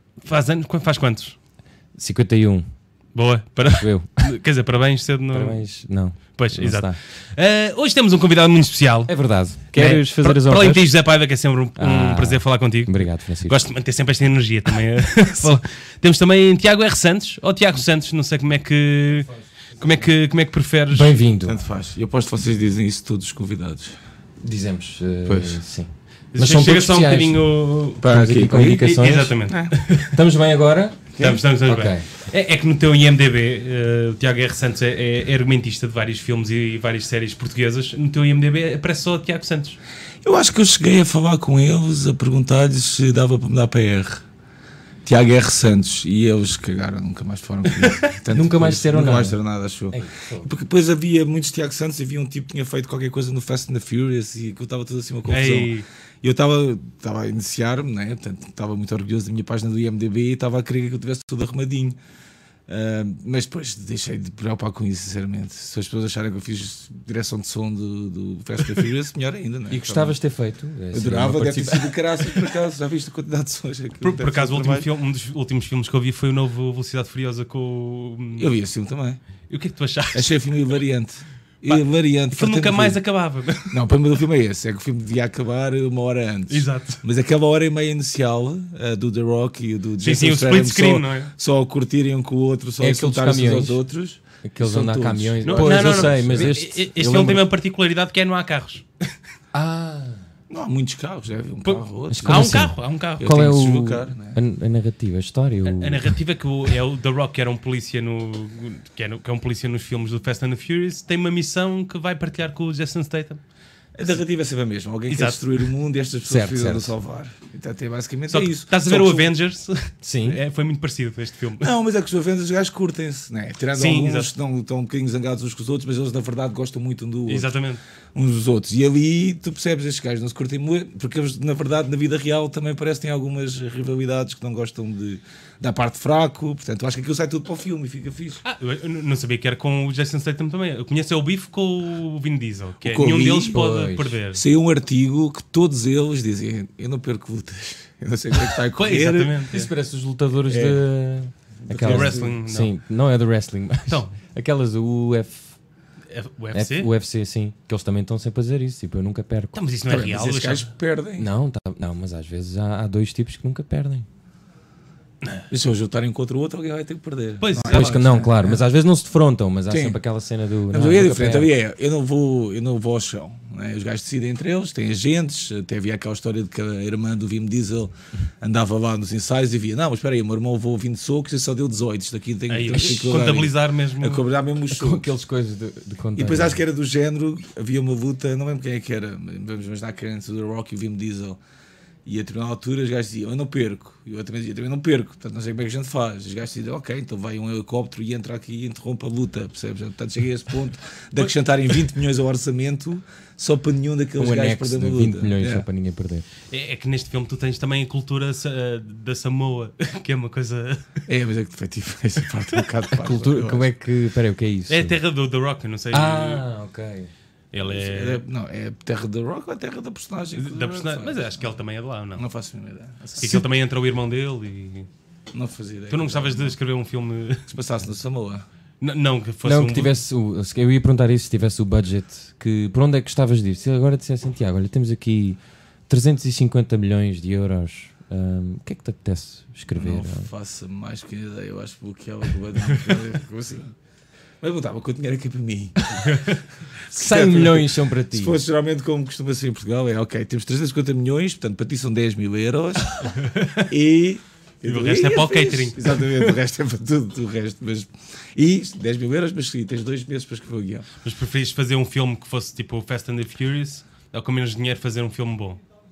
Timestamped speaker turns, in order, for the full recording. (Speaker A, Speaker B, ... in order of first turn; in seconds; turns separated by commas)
Speaker A: 0.2-1.4, Speaker B: 1.9-2.7, Speaker A: 3.1-5.6, Speaker B: 3.7-4.3, Speaker B: 5.3-7.0, Speaker A: 6.3-9.1, Speaker B: 9.1-10.9, Speaker A: 9.7-21.2, Speaker B: 11.8-13.6, Speaker B: 20.9-21.7, Speaker C: 21.4-24.0, Speaker B: 24.4-27.4, Speaker C: 25.2-25.6, Speaker A: 26.3-30.2, Speaker C: 28.0-29.7, Speaker B: 28.0-29.4, Speaker B: 30.0-31.1, Speaker C: 31.1-31.4, Speaker A: 31.2-39.8, Speaker B: 31.6-32.1, Speaker C: 40.2-44.2, Speaker C: 45.0-62.0, Speaker A: 47.7-48.1, Speaker B: 48.3-49.4, Speaker B: 49.9-50.5, Speaker A: 55.3-55.9, Speaker C: 62.7-70.2, Speaker B: 69.7-72.1, Speaker C: 70.9-74.9, Speaker A: 74.0-78.5, Speaker C: 78.4-79.2, Speaker A: 79.5-80.6, Speaker C: 80.1-83.0, Speaker A: 81.7-83.8, Speaker C: 83.7-96.6, Speaker A: 86.5-87.0, Speaker A: 90.0-91.3, Speaker B: 92.8-93.8, Speaker B: 94.4-97.4, Speaker A: 95.4-98.8, Speaker B: 99.5-100.2, Speaker C: 100.5-104.4, Speaker A: 101.6-103.3, Speaker B: 102.1-106.1, Speaker A: 105.6-113.4, Speaker C: 114.0-119.3, Speaker A: 115.1-115.6, Speaker B: 116.2-116.9, Speaker A: 118.3-121.7, Speaker B: 120.0-120.4, Speaker C: 121.6-127.5, Speaker A: 123.8-124.3, Speaker A: 127.3-127.8, Speaker C: 128.1-138.4, Speaker A: 138.4-144.4, Speaker C: 142.8-143.6, Speaker B: 143.5-144.2, Speaker C: 144.3-149.7, Speaker A: 148.5-149.6, Speaker B: 149.5-155.6, Speaker C: 150.4-150.9, Speaker C: 151.6-152.4, Speaker A: 151.8-152.7, Speaker A: 153.9-154.1, Speaker A: 156.1-156.9, Speaker B: 156.5-159.6, Speaker A: 159.5-160.7, Speaker C: 159.9-161.3, Speaker B: 161.2-164.1, Speaker C: 165.5-168.6, Speaker A: 167.4-168.1, Speaker B: 167.6-171.5, Speaker C: 169.7-170.0, Speaker C: 170.7-185.1, Speaker A: 182.5-184.2, Speaker B: 184.7-186.6, Speaker C: 186.2-191.4, Speaker C: 192.1-205.7, Speaker B: 204.2-206.3, Speaker A: 206.4-211.0, Speaker C: 211.1-213.7, Speaker B: 213.0-215.0, Speaker A: 214.7-216.4, Speaker B: 215.9-217.1, Speaker A: 217.5-218.2, Speaker C: 217.6-221.6, Speaker A: 220.4-222.2, Speaker C: 222.2-223.4, Speaker A: 223.2-224.9, Speaker C: 225.3-226.6, Speaker A: 225.9-227.5, Speaker C: 227.5-228.4, Speaker A: 228.8-230.0, Speaker B: 229.4-240.3, Speaker C: 239.7-243.7, Speaker C: 244.4-253.1, Speaker A: 246.0-246.4, Speaker B: 246.9-248.4, Speaker A: 253.0-253.7, Speaker C: 253.7-260.9, Speaker A: 254.6-256.4, Speaker A: 261.0-265.6